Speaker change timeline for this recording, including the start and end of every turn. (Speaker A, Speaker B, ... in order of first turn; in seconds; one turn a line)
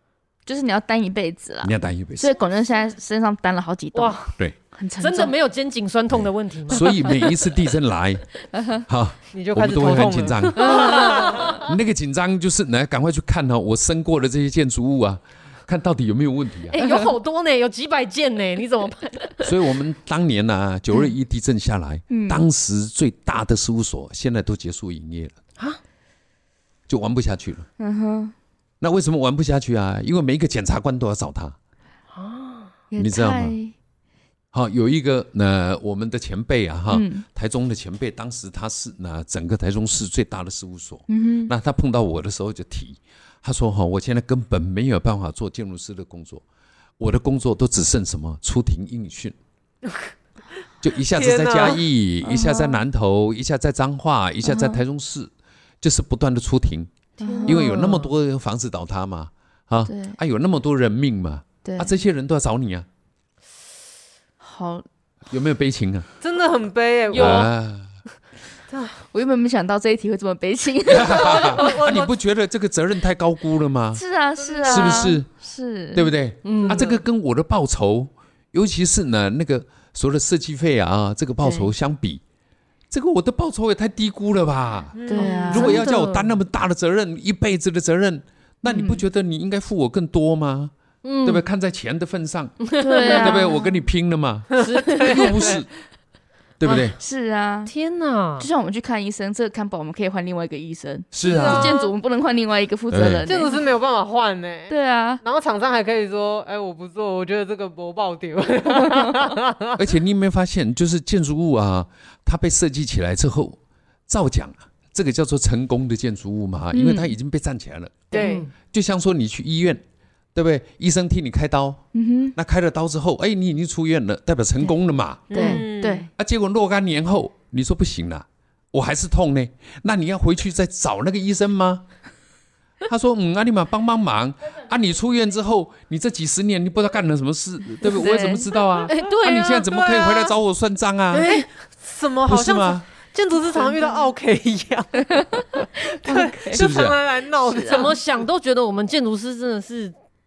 Speaker A: 0.5-5.3
Speaker B: 1.6-2.3
Speaker C: 3.9-4.3
Speaker C: 5.0-7.2
Speaker B: 6.1-8.3
Speaker A: 6.9-7.1
Speaker A: 8.5-8.8
Speaker B: 8.8-16.8
Speaker D: 9.3-11.6
Speaker A: 10.6-11.7
Speaker C: 16.7-19.5
Speaker A: 16.8-17.0
Speaker B: 19.4-25.4
Speaker A: 22.1-22.4
Speaker B: 26.9-27.6
Speaker A: 27.8-28.3
Speaker B: 28.8-31.6
Speaker C: 32.1-32.7
Speaker A: 32.9-33.7
Speaker B: 33.0-33.6
Speaker B: 34.5-46.4
Speaker A: 36.9-37.2
Speaker A: 41.1-41.5
Speaker B: 47.0-49.4
Speaker B: 50.8-56.9
Speaker D: 51.1-51.8
Speaker A: 52.2-52.8
Speaker A: 54.4-54.8
Speaker A: 57.2-57.7
Speaker D: 57.2-58.1
Speaker B: 57.4-62.9
Speaker A: 59.8-60.2
Speaker A: 61.6-61.9
Speaker A: 64.4-64.8
Speaker B: 65.3-66.1
Speaker D: 66.2-67.5
Speaker C: 67.1-67.5
Speaker B: 67.1-68.0
Speaker D: 68.7-69.0
Speaker A: 69.1-71.8
Speaker B: 70.9-74.0
Speaker D: 71.3-72.1
Speaker A: 73.9-76.1
Speaker D: 74.3-75.2
Speaker B: 74.7-75.3
Speaker B: 75.9-82.2
Speaker C: 76.4-76.8
Speaker D: 76.6-77.0
Speaker A: 81.4-81.7
Speaker B: 82.9-90.7
Speaker D: 84.9-85.5
Speaker A: 85.1-85.9
Speaker C: 85.2-86.3
Speaker C: 88.7-88.9
Speaker C: 91.0-91.4
Speaker B: 91.2-95.7
Speaker C: 92.7-93.4
Speaker A: 92.8-93.8
Speaker D: 94.5-95.6
Speaker C: 94.6-95.6
Speaker B: 96.6-97.0
Speaker A: 96.9-97.7
Speaker C: 97.7-98.5
Speaker A: 98.4-103.6
Speaker B: 101.1-101.7
Speaker D: 101.2-101.9
Speaker B: 102.9-103.2
Speaker D: 103.3-109.8
Speaker A: 104.7-105.2
Speaker A: 108.9-109.3
Speaker B: 109.7-118.1
Speaker A: 116.7-117.2
Speaker A: 118.1-118.3
Speaker D: 118.1-118.5
Speaker C: 118.2-118.5
Speaker B: 118.7-119.8
Speaker B: 120.3-121.8
Speaker A: 121.9-122.3
Speaker B: 122.3-131.8
Speaker D: 125.3-126.1
Speaker A: 125.3-126.1
Speaker B: 132.8-141.3
Speaker A: 137.8-138.5
Speaker C: 138.9-140.3
Speaker C: 141.1-141.5
Speaker D: 141.2-148.0
Speaker B: 142.2-142.8
Speaker A: 143.6-144.0
Speaker A: 145.1-146.7
Speaker B: 146.5-147.0
Speaker A: 147.4-147.9
Speaker C: 147.7-149.9